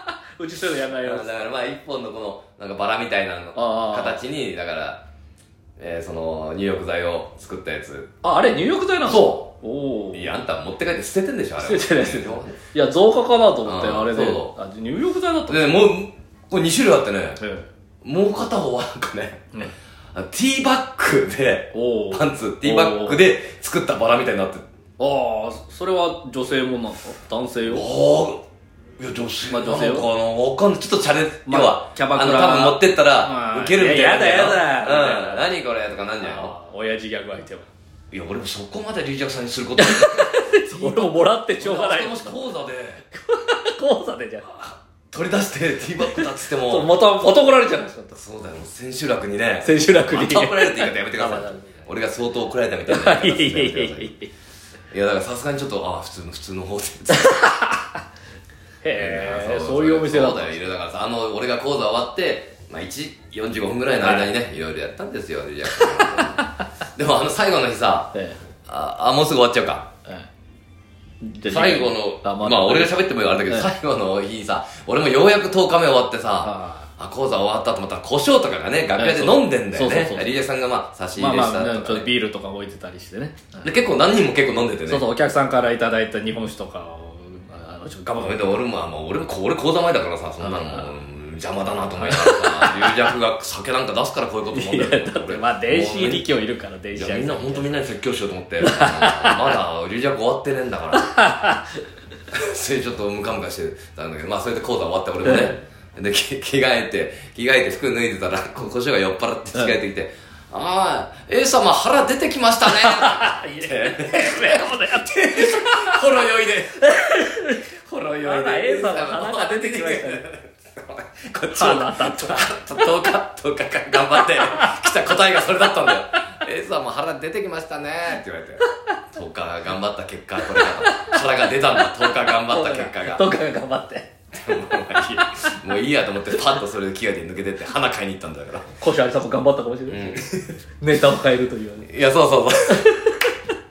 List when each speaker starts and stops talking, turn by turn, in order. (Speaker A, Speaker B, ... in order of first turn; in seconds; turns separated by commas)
Speaker A: 0.4-1.4, Speaker B: 1.0-5.0, Speaker A: 3.5-4.2, Speaker B: 5.8-8.1, Speaker A: 8.2-10.3, Speaker B: 9.0-9.5, Speaker B: 10.1-12.6, Speaker A: 11.6-15.9, Speaker B: 13.6-14.5, Speaker B: 15.5-17.4, Speaker A: 17.4-17.7, Speaker B: 18.0-19.5, Speaker B: 20.1-24.6, Speaker A: 21.7-23.2, Speaker A: 25.0-27.9, Speaker B: 27.6-28.4, Speaker B: 29.0-36.5, Speaker A: 29.5-30.1, Speaker A: 31.4-35.5, Speaker A: 36.2-37.7, Speaker B: 38.1-43.0, Speaker A: 39.8-42.4, Speaker A: 43.1-44.6, Speaker B: 44.6-46.9, Speaker A: 46.1-48.2, Speaker B: 48.1-54.1, Speaker A: 49.6-51.8, Speaker A: 52.9-54.3, Speaker B: 54.9-57.4, Speaker A: 57.1-58.0, Speaker A: 58.8-60.6, Speaker B: 58.9-68.1, Speaker A: 64.0-64.3, Speaker A: 65.7-66.6, Speaker A: 68.1-68.4, Speaker B: 68.7-69.9, Speaker A: 71.2-73.7, Speaker B: 71.5-82.1, Speaker A: 76.4-76.8, Speaker A: 79.0-80.4, Speaker A: 81.2-83.7, Speaker B: 83.6-85.0, Speaker A: 84.9-88.6, Speaker B: 88.2-96.2, Speaker A: 90.4-90.9, Speaker A: 92.0-93.1, Speaker A: 94.5-97.9, Speaker B: 96.9-101.1, Speaker A: 98.6-99.5, Speaker A: 100.9-101.7, Speaker B: 102.3-117.2, Speaker A: 105.2-105.6, Speaker A: 112.6-116.2, Speaker A: 116.8-120.2, Speaker B: 117.8-133.3, Speaker A: 121.5-122.8, Speaker A: 124.2-125.1, Speaker A: 130.4-131.2, Speaker A: 131.8-134.1, Speaker B: 134.3-138.7, Speaker A: 134.7-135.6, Speaker A: 138.8-140.2, Speaker B: 139.9-140.5, Speaker A: 140.8-141.9, Speaker B: 141.8-142.9, Speaker A: 142.9-143.2